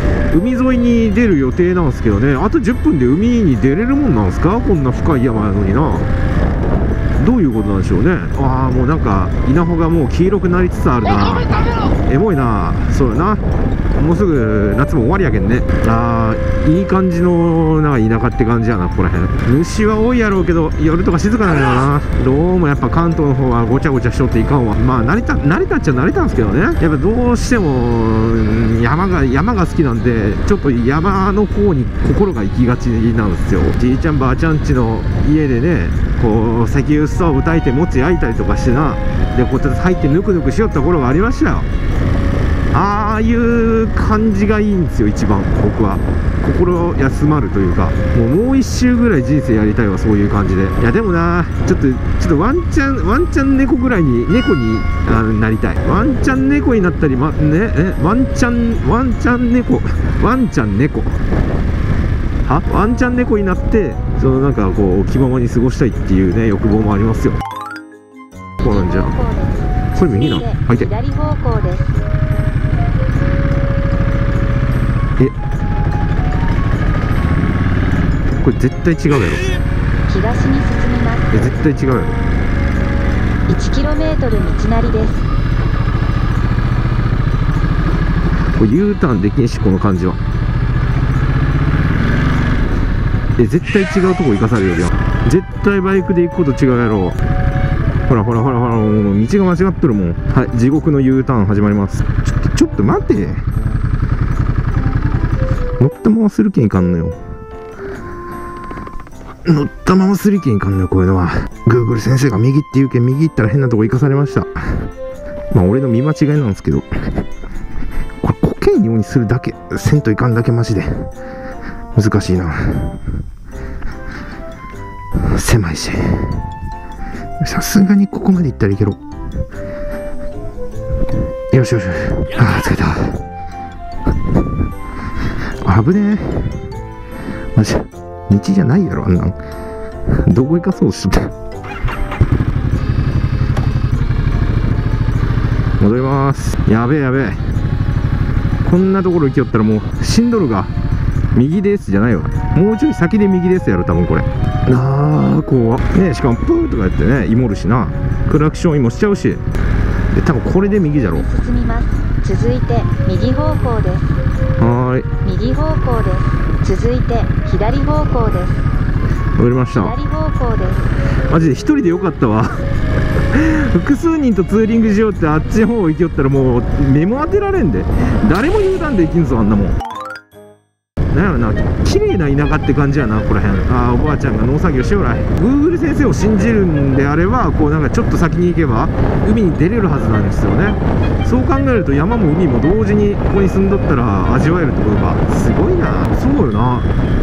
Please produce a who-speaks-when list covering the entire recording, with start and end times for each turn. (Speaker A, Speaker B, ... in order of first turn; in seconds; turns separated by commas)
Speaker A: 0.3-6.1, Speaker A: 7.2-13.4, Speaker A: 13.9-41.7, Speaker A: 42.7-61.2, Speaker A: 62.5-67.4, Speaker A: 68.6-69.2, Speaker B: 68.6-72.0, Speaker A: 69.9-70.9, Speaker A: 78.4-79.5, Speaker B: 80.1-81.3, Speaker A: 81.3-82.2, Speaker B: 83.5-85.2, Speaker A: 88.6-90.2, Speaker A: 93.4-97.2, Speaker A: 98.1-103.4, Speaker A: 105.8-107.2, Speaker A: 109.4-114.9, Speaker A: 115.5-116.9, Speaker A: 118.2-121.1, Speaker A: 121.9-123.0, Speaker A: 125.2-126.5, Speaker A: 127.4-129.0, Speaker A: 131.5-133.2, Speaker A: 135.6-136.6, Speaker A: 137.5-139.4, Speaker A: 140.1-141.3, Speaker A: 145.8-147.4, Speaker A: 148.6-150.7, Speaker A: 151.3-159.4, Speaker A: 160.1-161.3, Speaker B: 161.1-164.2, Speaker A: 164.6-165.1, Speaker B: 165.2-168.6, Speaker A: 169.3-170.0, Speaker B: 169.7-170.9, Speaker A: 171.3-172.6, Speaker A: 173.3-179.8, Speaker A: 181.1-196.9